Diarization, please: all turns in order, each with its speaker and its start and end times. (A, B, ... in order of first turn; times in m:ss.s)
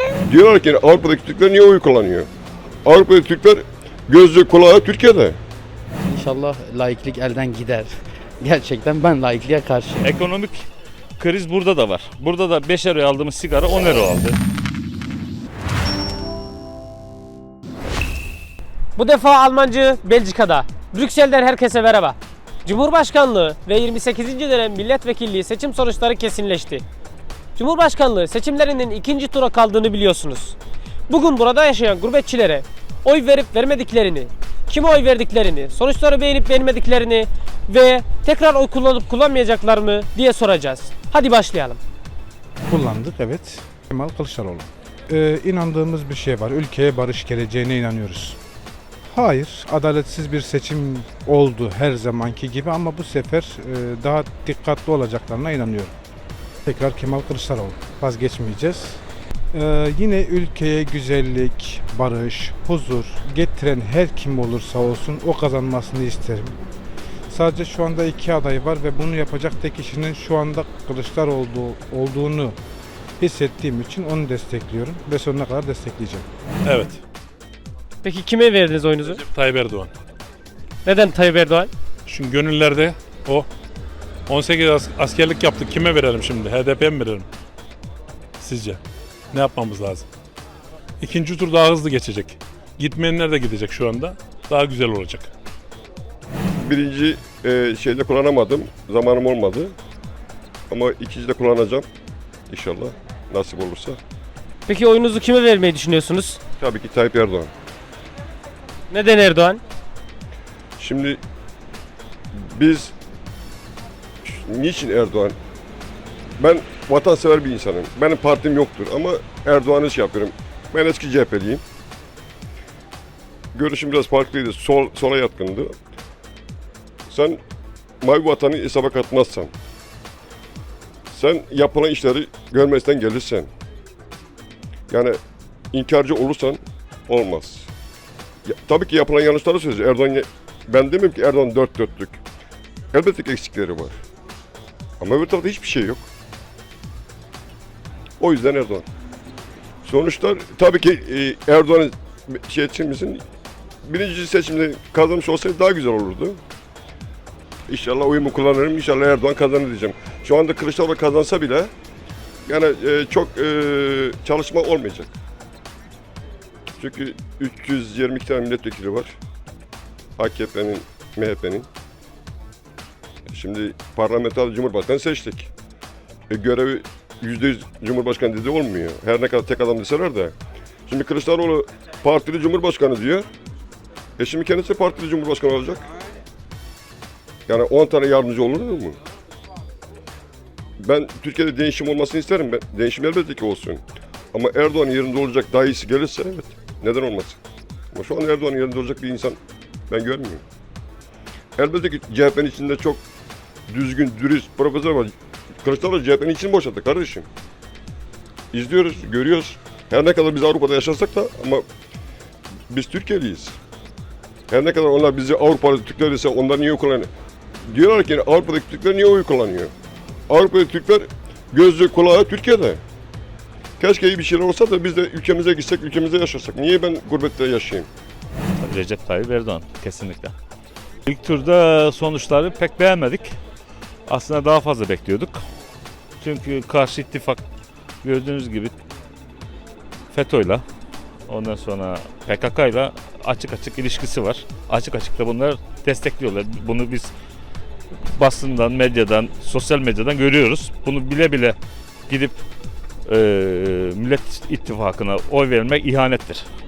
0:00.3-0:02.3 A
0:02.8-0:05.4 A
0:06.0-0:07.9 B
0:08.4-0:10.1 B
0:10.0-0:10.7 C
0:11.2-0:14.4 C
0:19.0-0:26.8 D
0:27.6-0:30.6 D
0:31.1-0:41.8 D
0:42.7-0:48.4 E
0:49.1-0:55.9 E
0:56.6-0:59.0 E
0:59.5-1:06.6 E
1:07.3-1:12.6 E
1:13.2-1:16.3 E
1:16.6-1:17.0 F
1:18.0-1:19.2 D
1:19.2-1:19.9 F
1:20.8-1:21.7 D
1:22.1-1:23.5 F
1:24.3-1:27.3 F
1:28.4-1:28.8 F
1:29.3-1:30.1 F
1:31.0-1:35.3 F
1:36.6-1:39.8 A
1:40.7-1:41.9 A
1:42.5-1:44.0 A
1:44.7-1:46.4 D
1:46.6-1:47.5 A
1:48.9-1:49.6 D
1:50.8-1:51.2 A
1:52.3-1:52.9 A
1:54.2-1:55.4 A
1:56.4-2:01.6 A
2:03.5-2:05.7 A
2:07.1-2:07.4 A
2:08.0-2:09.5 A
2:11.1-2:13.5 A
2:14.9-2:15.2 A
2:15.7-2:17.7 A
2:18.4-2:22.2 A
2:22.9-2:24.0 A
2:25.0-2:26.1 A
2:28.2-2:28.8 A
2:29.8-2:33.2 A
2:33.8-2:36.4 A
2:37.7-2:41.7 A
2:42.5-2:45.1 A
2:46.8-2:49.2 A
2:50.2-2:51.7 A
2:53.3-2:55.5 A
2:56.3-3:00.3 A
3:00.9-3:03.3 A
3:04.2-3:05.9 A
3:07.5-3:09.0 A
3:10.8-3:17.4 A
3:17.9-3:19.4 A
3:19.9-3:20.4 A
3:21.6-3:23.0 A
3:23.7-3:27.3 A
3:28.5-3:31.6 A
3:32.7-3:33.6 A
3:34.5-3:37.1 A
3:37.7-3:39.7 A
3:40.3-3:42.8 A
3:43.8-3:47.9 A
3:48.6-3:50.3 C
3:51.1-3:53.3 C
3:54.1-3:55.4 C
3:56.2-3:57.4 C
3:58.0-3:58.7 C
4:00.1-4:00.6 C
4:01.3-4:07.1 C
4:07.9-4:11.6 C
4:12.1-4:12.4 C
4:13.1-4:16.4 C